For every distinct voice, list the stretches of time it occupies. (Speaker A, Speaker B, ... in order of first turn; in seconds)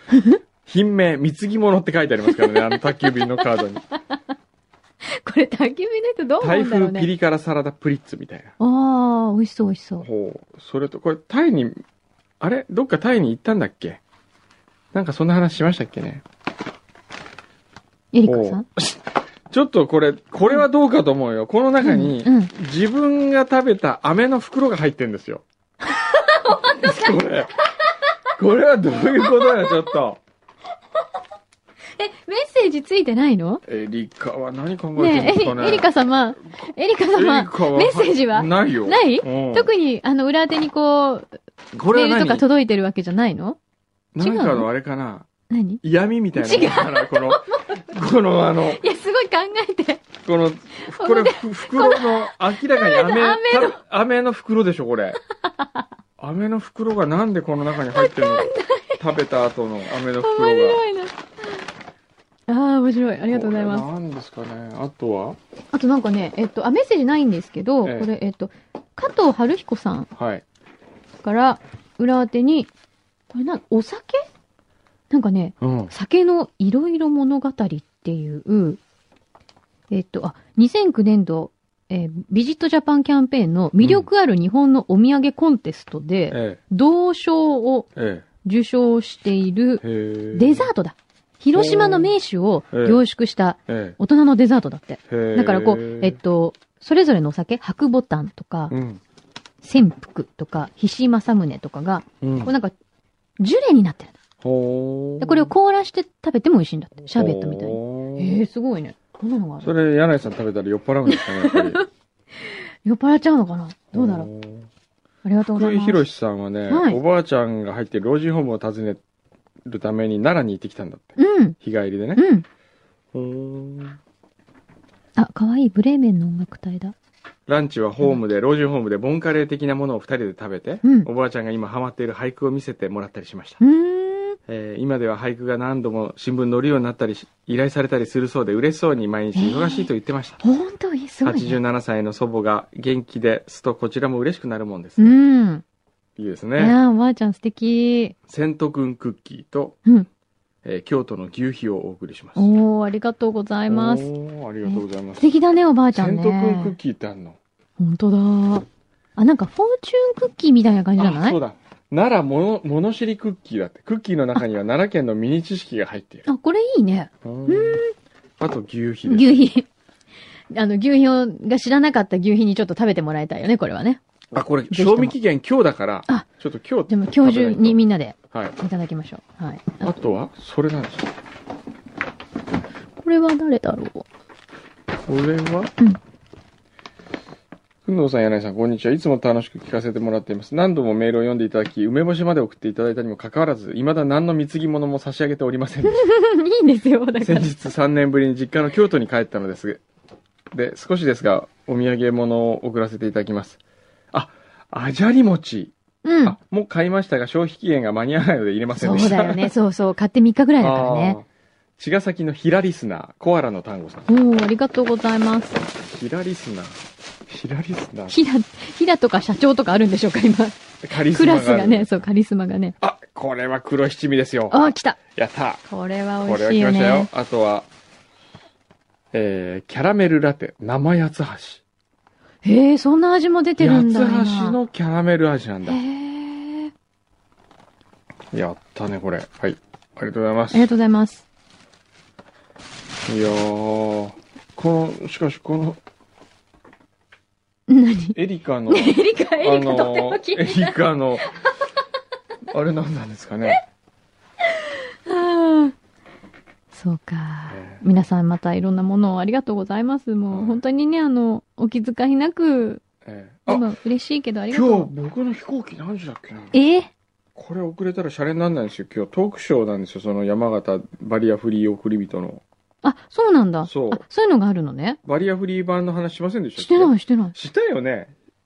Speaker A: 0.6-3.8, 6.4-8.5, 10.0-11.8, 12.4-14.0, 14.9-16.2, 18.2-25.4, 26.5-27.6, 28.4-30.2, 33.7-35.9, 37.1-39.7, 41.7-42.5, 44.1-45.3, 45.8-48.8, 50.2-55.2, 56.2-60.8, 63.3-65.4, 67.8-68.1, 70.2-70.4, 75.6-75.9, 83.8-84.1, 86.3-86.6, 88.0-88.2, 89.8-90.7, 91.5-92.1, 92.7-93.0, 93.7-94.0, 95.1-96.2, 98.7-99.0, 102.2-102.5, 104.4-105.5, 107.1-108.4, 109.6-111.8, 113.9-114.7, 115.5-119.0, 119.7-122.2, 123.1-124.0, 127.5-133.6, 134.5-140.4, 141.2-145.2, 146.2-146.8, 148.3-149.8, 150.6-152.5, 153.7-155.2, 155.9-157.4, 161.0-166.3, 167.2-167.8, 168.4-169.5, 174.3-178.6, 179.8-181.1, 185.1-185.7, 187.9-196.1, 197.2-199.8, 200.5-203.6, 204.1-209.5, 210.6-211.3, 211.8-214.1, 215.7-218.2, 220.8-222.0, 222.8-225.6, 226.2-227.7, 229.1-231.6, 233.6-235.8, 238.3-240.7, 243.1-245.8, 248.1-251.4, 252.5-253.6, 257.5-257.8, 260.3-260.6, 263.1-263.7, 264.5-266.6, 267.4-272.4, 273.6-274.0, 275.0-278.1
Speaker B: 2.3-4.2, 5.0-7.1, 8.6-10.1, 18.1-18.6, 21.8-22.5, 25.8-27.2, 29.1-29.9, 31.9-33.6, 35.0-41.4, 41.9-43.6, 44.2-44.7, 45.5-45.8, 46.4-47.8, 48.7-50.1, 50.9-53.8, 55.5-55.9, 57.9-59.0, 60.0-61.6, 62.5-63.9, 65.7-70.1, 71.2-72.7, 73.3-74.3, 75.1-78.8, 79.9-87.9, 88.4-98.7, 99.6-102.8, 103.4-104.1, 105.2-109.7, 111.1-111.9, 112.4-114.3, 115.2-116.0, 116.7-117.0, 121.2-121.6, 122.2-122.5, 125.2-127.0, 133.6-134.4, 139.3-139.9, 140.4-141.6, 145.0-145.6, 146.6-148.2, 152.4-154.1, 154.7-156.8, 157.8-161.4, 166.3-167.9, 169.1-169.7, 170.5-174.0, 174.7-175.2, 176.9-179.9, 183.0-184.1, 195.9-197.5, 206.0-206.4, 208.7-211.2, 214.1-215.7, 218.1-222.8, 224.5-225.0, 225.7-227.1, 232.4-234.6, 235.7-236.7, 240.5-241.2, 247.7-248.2, 248.7-251.3, 254.4-255.8, 256.7-262.8, 263.5-264.9, 266.5-266.9, 272.8-275.0, 276.6-277.3